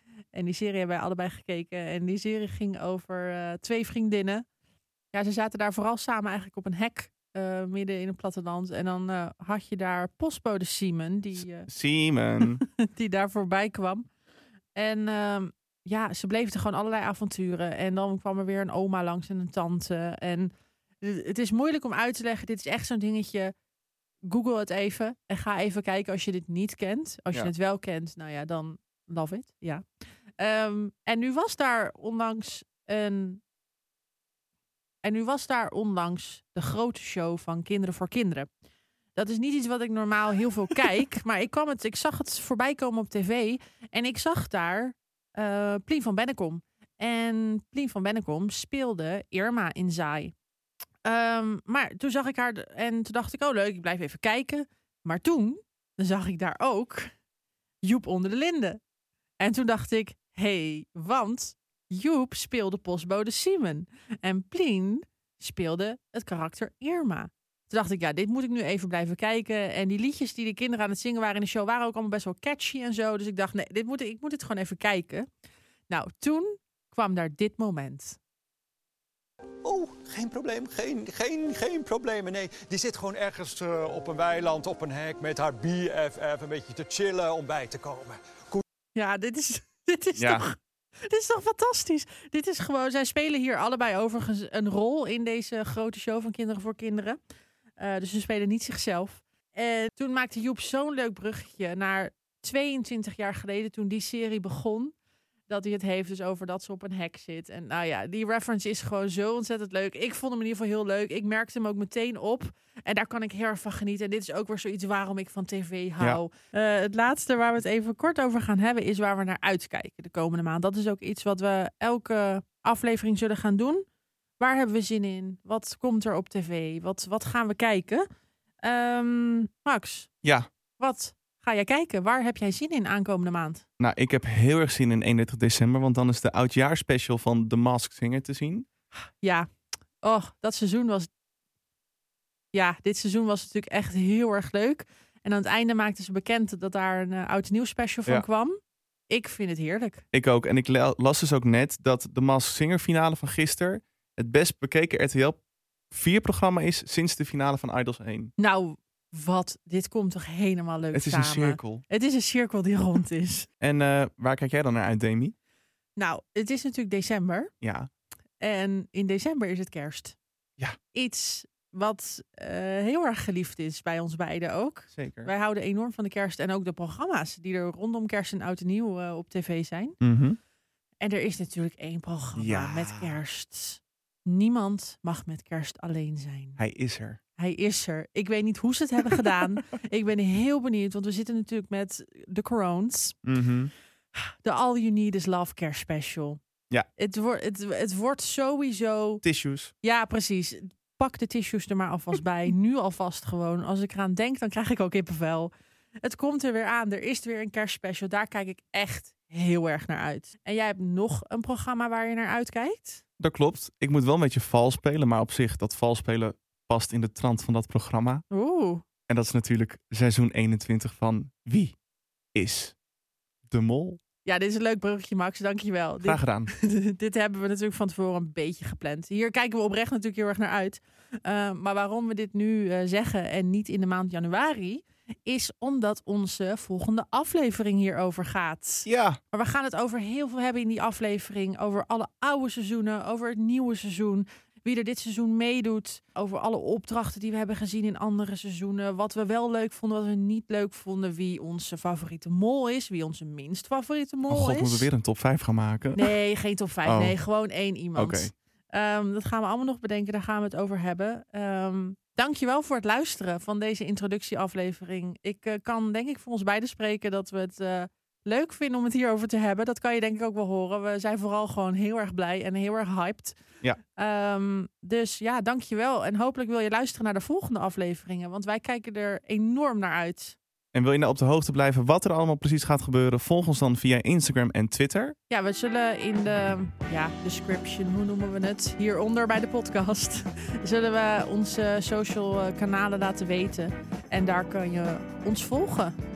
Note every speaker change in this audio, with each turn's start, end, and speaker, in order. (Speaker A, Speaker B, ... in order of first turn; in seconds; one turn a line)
Speaker A: 0.3-4.4
Speaker A: 5.1-11.7
Speaker B: 11.4-12.6
Speaker A: 12.4-14.1
Speaker A: 14.7-23.5
Speaker A: 24.2-29.8
Speaker A: 30.4-33.4
Speaker A: 35.0-38.5
Speaker A: 39.1-50.3
Speaker A: 51.0-57.1
Speaker A: 57.8-58.8
Speaker A: 59.4-75.3
Speaker A: 75.9-78.2
Speaker C: 79.6-88.6
Speaker A: 88.9-97.2
Speaker B: 90.2-90.5
Speaker A: 97.8-104.9
Speaker A: 105.5-123.8
Speaker A: 124.4-128.1
Speaker A: 128.6-130.1
Speaker B: 130.2-130.5
Speaker A: 130.8-133.6
Speaker B: 133.8-138.7
Speaker A: 138.9-139.5
Speaker A: 140.0-141.1
Speaker A: 142.5-148.6
Speaker A: 149.1-150.0
Speaker B: 150.1-155.4
Speaker B: 155.9-158.3
Speaker A: 158.4-163.5
Speaker B: 160.9-161.8
Speaker B: 163.6-165.3
Speaker A: 166.0-167.5
Speaker B: 167.6-167.9
Speaker A: 168.4-170.2
Speaker A: 170.9-179.9
Speaker B: 174.9-175.3
Speaker B: 180.0-180.4
Speaker A: 181.0-186.6
Speaker B: 182.3-183.2
Speaker B: 186.6-187.2
Speaker A: 187.4-193.2
Speaker B: 193.2-193.7
Speaker A: 194.1-196.4
Speaker A: 197.0-199.2
Speaker B: 199.2-199.7
Speaker A: 199.8-205.5
Speaker A: 206.0-213.0
Speaker B: 213.2-218.2
Speaker A: 218.3-218.8
Speaker B: 219.1-221.8
Speaker B: 222.3-222.7
Speaker B: 223.5-224.0
Speaker A: 224.2-254.9
Speaker B: 226.0-226.5
Speaker B: 238.8-239.2
Speaker B: 254.3-256.1
Speaker A: 255.9-273.4
Speaker B: 256.8-257.2
Speaker B: 257.9-258.3
Speaker A: 273.9-280.4
Speaker B: 280.7-285.1
Speaker A: 285.3-295.9